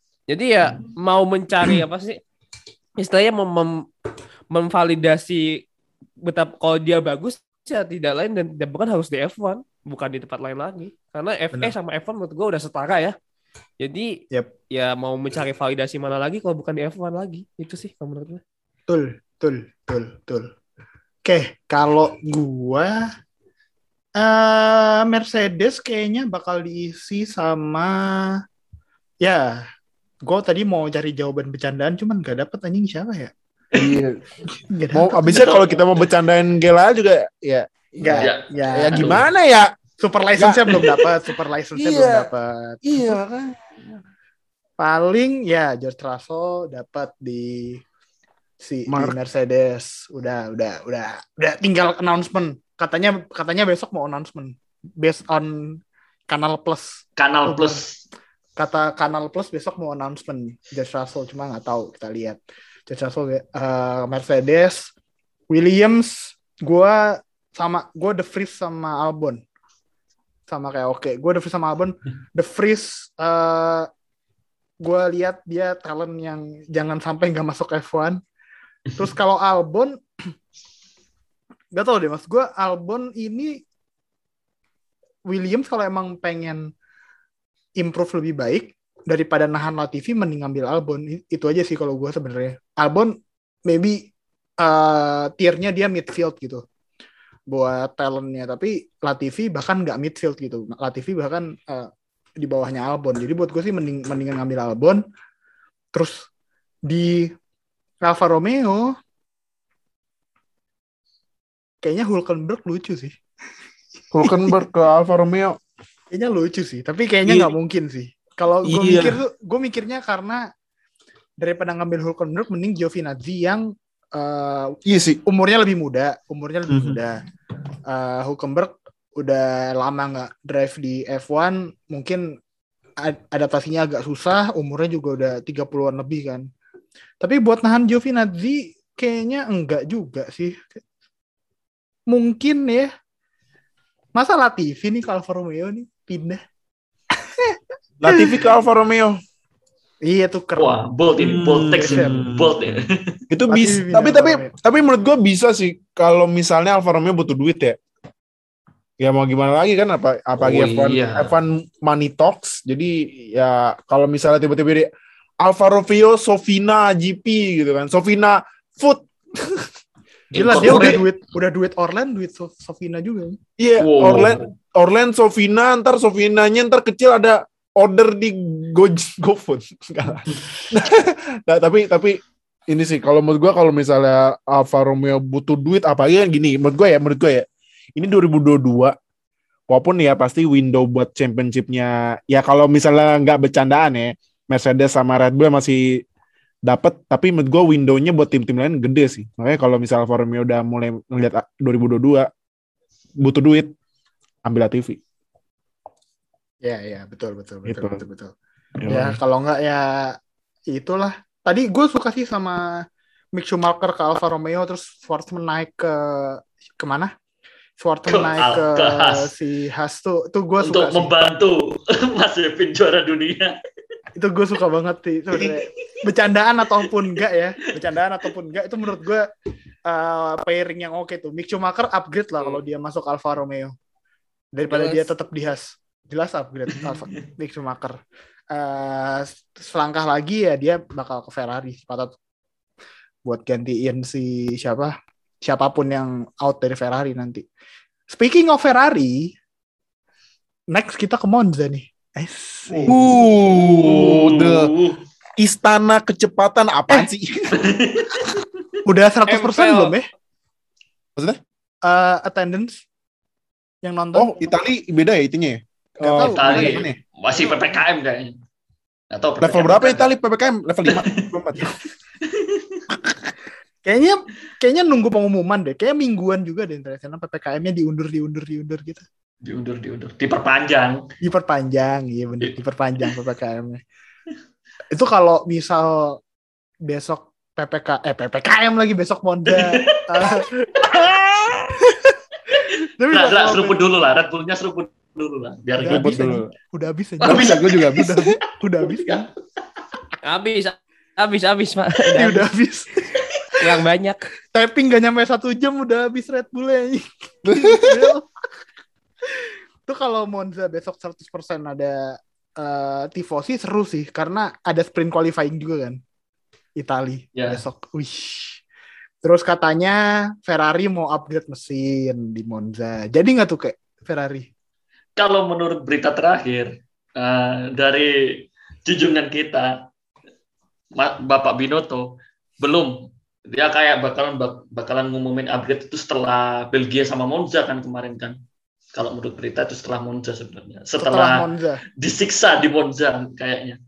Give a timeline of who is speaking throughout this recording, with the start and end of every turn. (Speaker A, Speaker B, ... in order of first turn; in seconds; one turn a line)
Speaker A: 0.3-2.2
Speaker A: 3.0-3.9
Speaker A: 4.5-5.6
Speaker A: 6.2-13.2
Speaker A: 13.8-14.2
Speaker A: 14.7-18.4
Speaker B: 18.9-20.5
Speaker B: 21.2-23.0
Speaker B: 24.2-28.4
Speaker B: 29.2-29.6
Speaker B: 30.2-33.3
Speaker C: 33.7-34.2
Speaker B: 34.5-35.4
Speaker C: 34.9-39.7
Speaker D: 35.2-36.1
Speaker B: 38.0-39.2
Speaker D: 38.1-39.2
Speaker B: 40.0-43.2
Speaker C: 40.4-40.8
Speaker D: 40.7-41.0
Speaker C: 41.7-42.3
Speaker C: 42.8-43.6
Speaker B: 44.8-47.8
Speaker B: 48.6-57.8
Speaker C: 48.9-49.1
Speaker D: 57.2-58.0
Speaker B: 58.6-64.9
Speaker B: 65.5-69.4
Speaker B: 70.5-73.9
Speaker B: 74.8-78.2
Speaker B: 79.0-80.3
Speaker B: 81.7-83.6
Speaker B: 85.3-86.7
Speaker B: 87.8-93.1
Speaker B: 93.7-94.1
Speaker B: 94.6-96.6
Speaker B: 97.5-101.9
Speaker B: 102.4-105.0
Speaker B: 105.9-106.3
Speaker B: 106.8-107.3
Speaker B: 108.0-108.9
Speaker B: 111.8-113.2
Speaker C: 114.1-115.6
Speaker B: 116.1-120.5
Speaker C: 117.3-117.5
Speaker C: 118.6-119.2
Speaker B: 121.4-127.2
Speaker C: 124.8-125.2
Speaker C: 126.7-127.0
Speaker B: 127.9-132.3
Speaker B: 133.0-136.4
Speaker B: 137.2-140.8
Speaker B: 142.1-142.9
Speaker B: 144.1-146.4
Speaker B: 147.2-148.4
Speaker C: 148.0-149.2
Speaker B: 150.0-150.7
Speaker D: 150.6-153.2
Speaker C: 151.2-157.8
Speaker B: 151.3-152.2
Speaker B: 153.5-154.5
Speaker C: 159.0-164.9
Speaker D: 160.4-161.3
Speaker C: 165.4-169.3
Speaker B: 170.3-173.4
Speaker D: 170.3-171.1
Speaker C: 170.6-171.0
Speaker C: 173.6-188.9
Speaker D: 173.8-174.5
Speaker C: 189.7-196.0
Speaker C: 196.7-202.3
Speaker C: 203.2-203.7
Speaker C: 204.4-205.0
Speaker B: 206.6-208.3
Speaker C: 207.6-208.0
Speaker C: 208.8-209.2
Speaker B: 208.9-210.2
Speaker B: 210.7-212.7
Speaker B: 213.3-217.1
Speaker B: 217.8-221.2
Speaker D: 218.1-219.3
Speaker D: 220.6-223.6
Speaker B: 224.1-229.3
Speaker B: 229.9-233.7
Speaker B: 234.5-238.0
Speaker A: 234.7-235.1
Speaker B: 238.5-242.1
Speaker B: 243.2-247.4
Speaker B: 248.1-249.3
Speaker B: 250.7-252.9
Speaker C: 252.8-254.7
Speaker D: 252.9-255.0
Speaker C: 255.4-257.6
Speaker D: 257.5-258.4
Speaker B: 258.8-260.1
Speaker A: 259.3-260.0
Speaker B: 261.8-262.8
Speaker B: 263.8-264.3
Speaker C: 264.1-267.0
Speaker B: 266.0-266.9
Speaker D: 266.2-268.4
Speaker D: 269.1-270.1
Speaker C: 269.4-271.7
Speaker D: 270.9-271.3
Speaker D: 272.2-272.8
Speaker B: 273.8-279.0
Speaker D: 279.4-281.1
Speaker B: 281.2-283.8
Speaker B: 284.9-286.2
Speaker B: 286.8-290.8
Speaker D: 289.4-290.4
Speaker C: 290.9-291.7
Speaker B: 291.8-293.8
Speaker D: 293.1-296.3
Speaker B: 295.8-299.2
Speaker C: 295.8-296.5
Speaker C: 297.2-298.3
Speaker D: 297.2-297.7
Speaker D: 298.8-299.3
Speaker A: 300.2-302.5
Speaker B: 302.1-303.2
Speaker A: 303.6-304.3
Speaker B: 304.5-308.3
Speaker C: 307.4-308.1
Speaker B: 309.4-316.0
Speaker B: 316.8-318.6
Speaker D: 317.4-317.6
Speaker B: 319.2-324.5
Speaker D: 325.2-329.8
Speaker D: 330.9-338.4
Speaker D: 338.9-343.8
Speaker B: 341.0-341.8